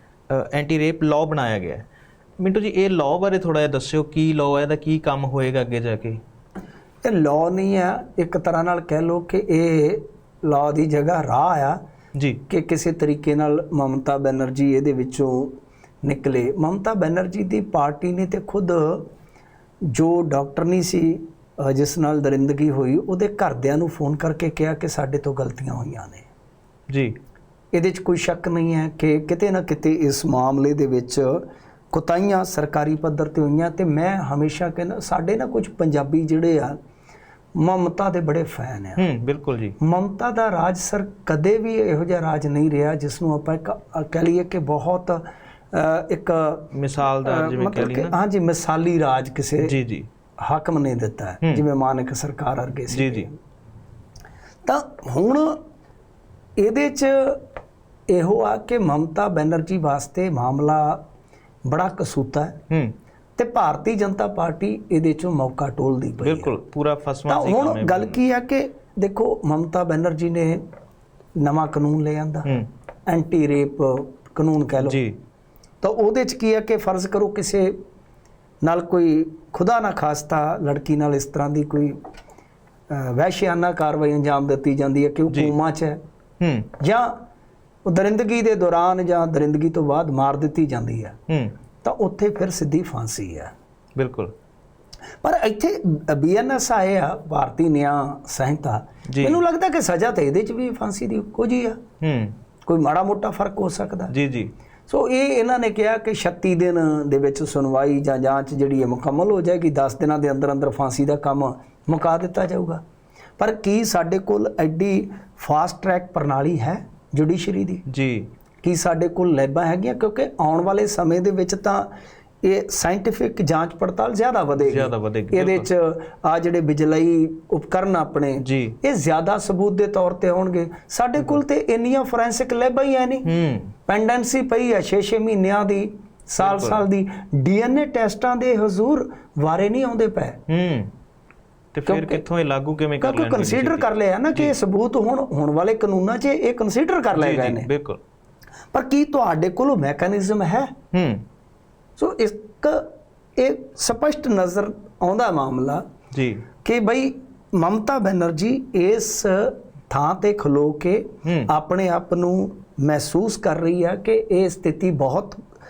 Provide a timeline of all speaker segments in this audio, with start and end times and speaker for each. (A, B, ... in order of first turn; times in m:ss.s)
0:00.3-0:01.8 A
0:02.4-0:06.2 A
0:07.0-0:11.8 B
0:12.2-0:12.4 A
0:12.5-0:19.1 B
0:19.9-0:26.2 B
0:26.9-0:27.1 A
0:27.7-0:36.8 B
0:37.5-0:39.0 B
0:39.0-0:39.8 A
0:39.8-0:49.7 B
0:46.7-0:48.2 A
0:49.6-0:50.1 A
0:50.4-0:53.3 B
0:52.9-0:53.3 A
0:54.6-0:55.6 B
0:56.6-0:57.4 B
0:58.1-1:01.0 B
1:01.6-1:02.6 B
1:02.7-1:02.9 A
1:03.4-1:06.5 B
1:06.2-1:08.2 A
1:07.3-1:10.6 B
1:11.4-1:12.5 B
1:13.1-1:15.0 B
1:14.8-1:15.2 A
1:15.8-1:17.7 B
1:18.6-1:22.0 B
1:22.9-1:26.0 B
1:26.4-1:26.7 A
1:26.8-1:27.2 B
1:27.8-1:31.2 B
1:31.3-1:31.5 A
1:31.8-1:33.5 B
1:34.0-1:34.3 A
1:35.2-1:41.8 B
1:39.1-1:39.4 A
1:42.0-1:42.4 A
1:42.6-1:44.1 B
1:44.1-1:44.5 A
1:44.9-1:52.8 B
1:53.4-1:57.8 B
1:57.9-1:58.3 A
1:58.6-2:01.9 B
2:02.4-2:13.3 B
2:04.6-2:05.7 A
2:08.4-2:08.8 A
2:13.2-2:13.7 A
2:13.9-2:20.4 B
2:16.4-2:16.8 A
2:20.5-2:20.9 A
2:21.7-2:24.5 A
2:21.8-2:22.2 B
2:23.0-2:27.7 B
2:27.1-2:28.0 A
2:28.7-2:30.7 B
2:30.9-2:31.2 A
2:32.0-2:35.8 B
2:36.1-2:36.4 A
2:36.6-2:45.4 B